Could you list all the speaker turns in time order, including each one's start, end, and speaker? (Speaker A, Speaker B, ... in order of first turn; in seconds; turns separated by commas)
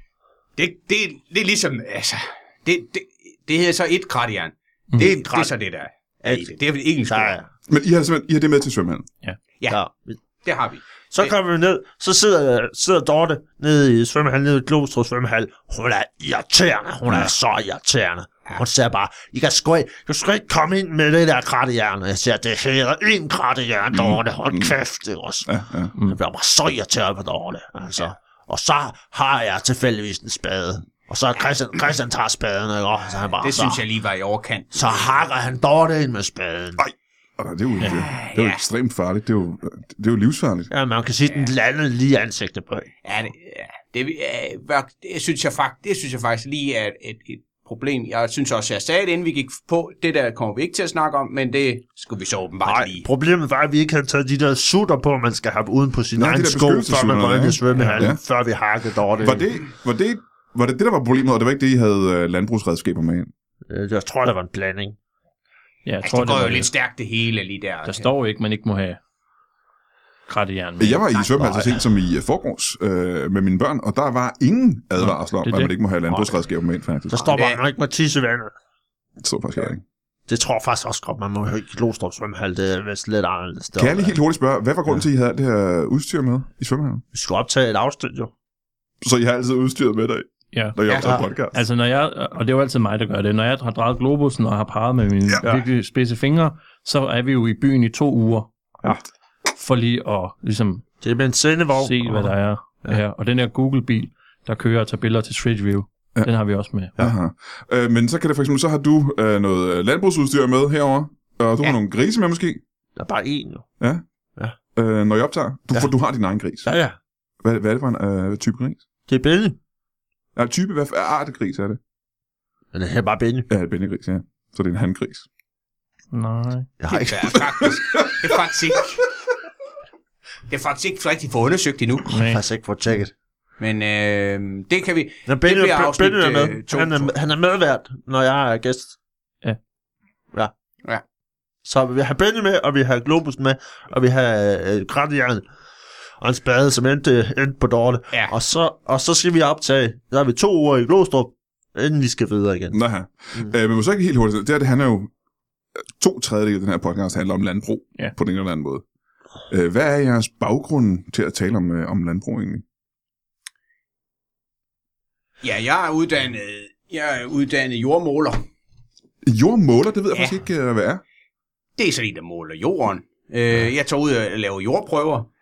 Speaker A: 0.6-7.3, Speaker B: 5.0-5.5, Speaker B: 6.2-6.5, Speaker B: 7.0-7.5, Speaker C: 7.7-9.1, Speaker B: 9.7-10.2, Speaker A: 10.4-11.3, Speaker B: 11.1-25.5, Speaker C: 23.9-24.7, Speaker C: 25.4-25.9, Speaker B: 26.0-33.8, Speaker A: 33.4-35.1, Speaker B: 34.7-36.8, Speaker C: 36.8-40.7, Speaker A: 37.8-38.6, Speaker B: 40.7-42.9, Speaker A: 43.0-53.1, Speaker B: 52.6-59.4, Speaker C: 56.1-58.2, Speaker D: 57.8-58.0, Speaker C: 59.2-63.3, Speaker B: 63.7-65.0, Speaker D: 65.8-66.7, Speaker A: 66.0-68.1, Speaker D: 67.8-69.0, Speaker D: 70.3-71.0, Speaker C: 70.8-77.3, Speaker B: 71.4-71.7, Speaker D: 75.0-75.7, Speaker B: 77.1-78.5, Speaker A: 77.2-77.6, Speaker C: 79.2-79.8, Speaker B: 80.3-84.2, Speaker C: 83.8-87.0, Speaker B: 87.1-88.3, Speaker C: 89.0-91.6, Speaker D: 90.5-90.8, Speaker D: 91.5-98.5, Speaker D: 99.5-100.8, Speaker B: 101.0-103.0, Speaker D: 101.8-106.9, Speaker C: 107.0-112.6, Speaker B: 113.0-113.7, Speaker C: 114.7-116.7, Speaker B: 116.6-117.0, Speaker C: 117.4-118.8, Speaker B: 119.1-119.6, Speaker C: 120.3-121.8, Speaker B: 122.7-123.5, Speaker C: 123.5-125.2, Speaker D: 126.1-126.7, Speaker B: 126.8-127.5, Speaker A: 126.9-129.1, Speaker C: 127.6-128.2, Speaker A: 130.5-132.1, Speaker D: 132.1-132.4, Speaker B: 132.1-133.1, Speaker A: 133.6-137.1, Speaker B: 135.3-138.9, Speaker B: 141.6-145.4, Speaker B: 146.2-152.8, Speaker C: 152.7-155.1, Speaker C: 156.0-158.8, Speaker C: 159.5-162.6, Speaker A: 165.4-168.4, Speaker C: 169.2-171.0, Speaker A: 170.1-170.4, Speaker A: 171.8-175.3